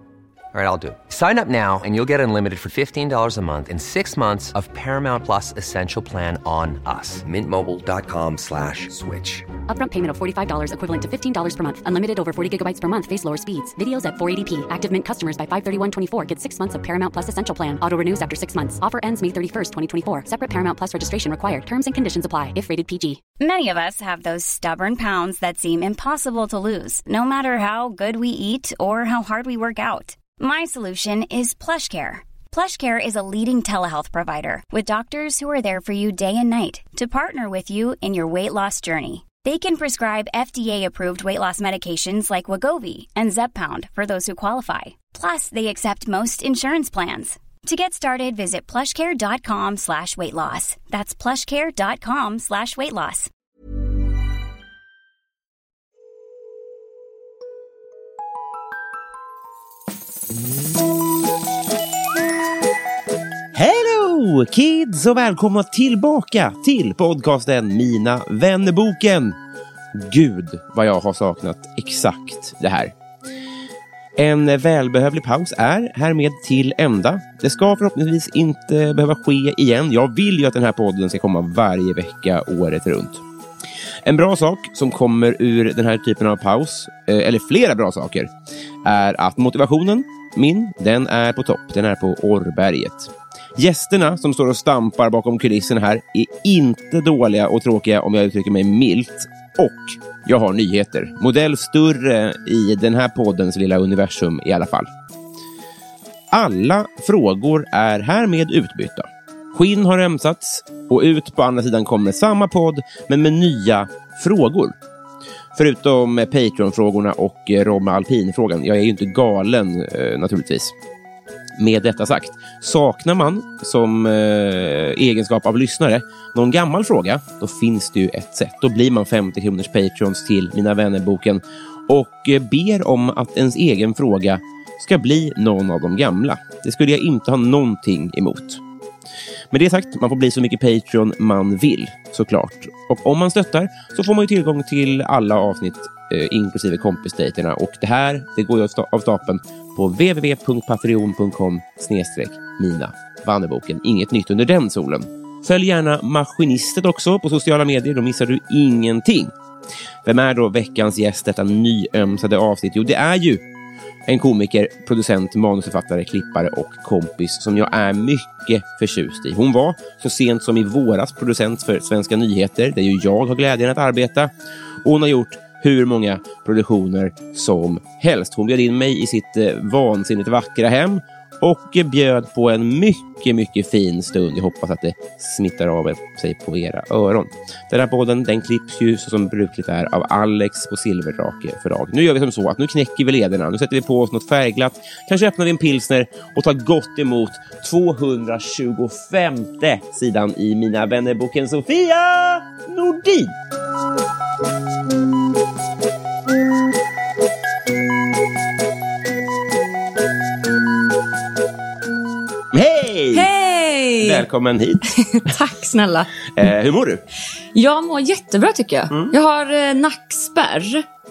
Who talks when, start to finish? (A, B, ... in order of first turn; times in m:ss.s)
0:00.5-0:09.5 A
0:09.7-0:23.2 B
0:23.4-0:53.3 C
1:03.5-1:09.4 D
1:09.9-1:12.9 D
1:14.2-1:23.2 D
1:24.0-1:28.3 D
1:28.8-1:44.9 D
1:46.3-1:54.8 D
1:55.6-2:00.7 D
2:01.6-2:18.6 D
2:19.5-2:39.3 D
2:40.0-2:43.4 D
2:44.1-2:54.3 D
2:54.8-3:23.4 D
3:32.5-3:33.3 D
3:33.1-3:34.3 E
3:34.0-3:34.9 D
3:34.9-3:36.1 E
3:36.2-3:37.0 D
3:37.5-3:40.8 E
3:38.9-3:39.2 D